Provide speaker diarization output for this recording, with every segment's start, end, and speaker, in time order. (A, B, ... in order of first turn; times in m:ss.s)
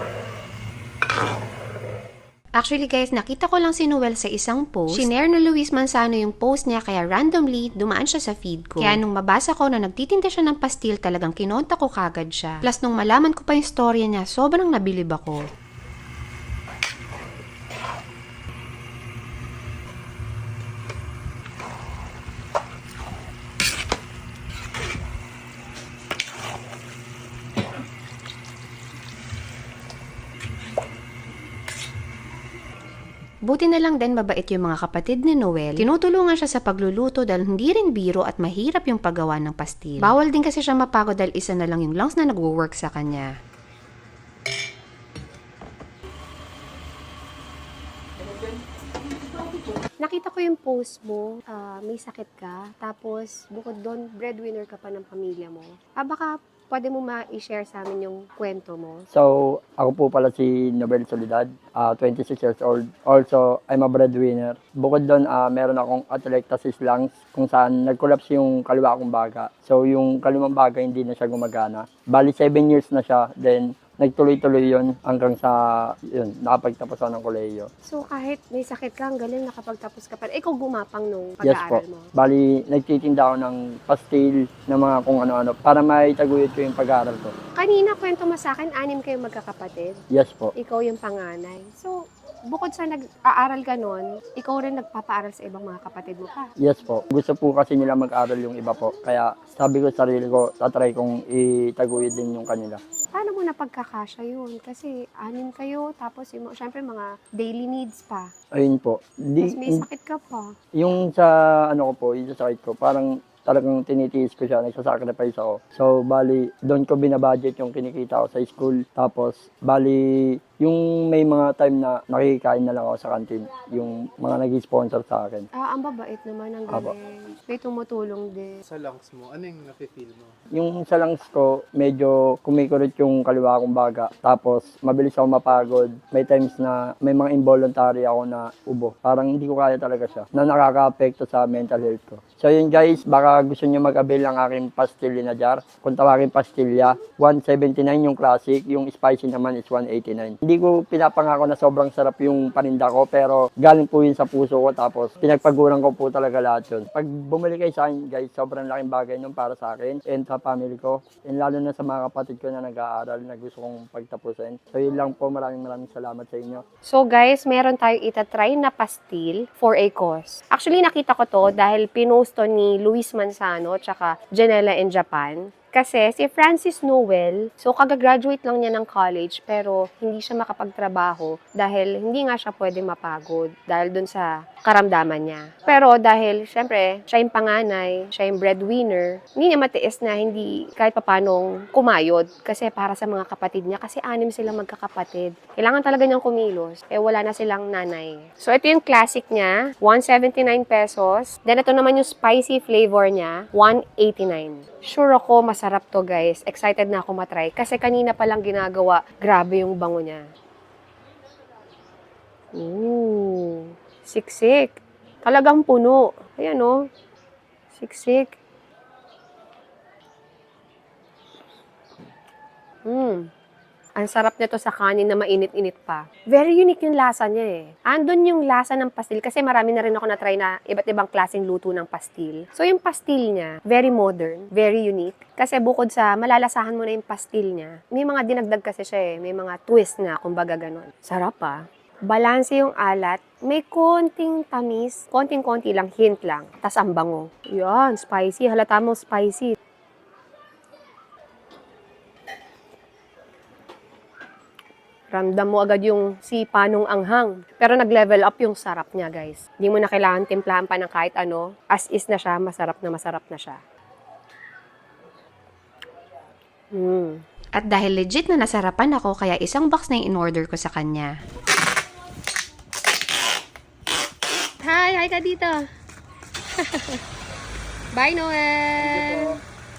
0:02.6-0:15.5 A
0:33.4-0:43.3 A
0:50.0-0:59.1 B
0:59.1-1:17.7 C
1:17.9-1:22.1 B
1:21.4-1:27.3 C
1:27.6-1:30.0 B
1:30.1-1:30.5 C
1:30.6-1:36.5 B
1:36.6-1:42.8 C
1:43.1-1:48.3 B
1:48.5-1:49.8 C
1:49.4-1:50.5 B
1:50.7-2:05.4 C
2:05.6-2:08.6 B
2:08.6-2:10.3 D
2:10.5-2:46.6 C
2:46.8-3:30.2 B
3:32.5-3:36.8 B
3:37.7-3:38.3 B
3:42.8-3:43.3 B
3:44.0-4:09.6 B
4:15.1-4:23.6 B
4:26.7-4:27.2 B
4:27.5-4:31.1 A
4:34.6-4:35.6 B
4:36.6-4:37.0 B
4:37.9-4:39.4 B
4:38.8-4:39.3 D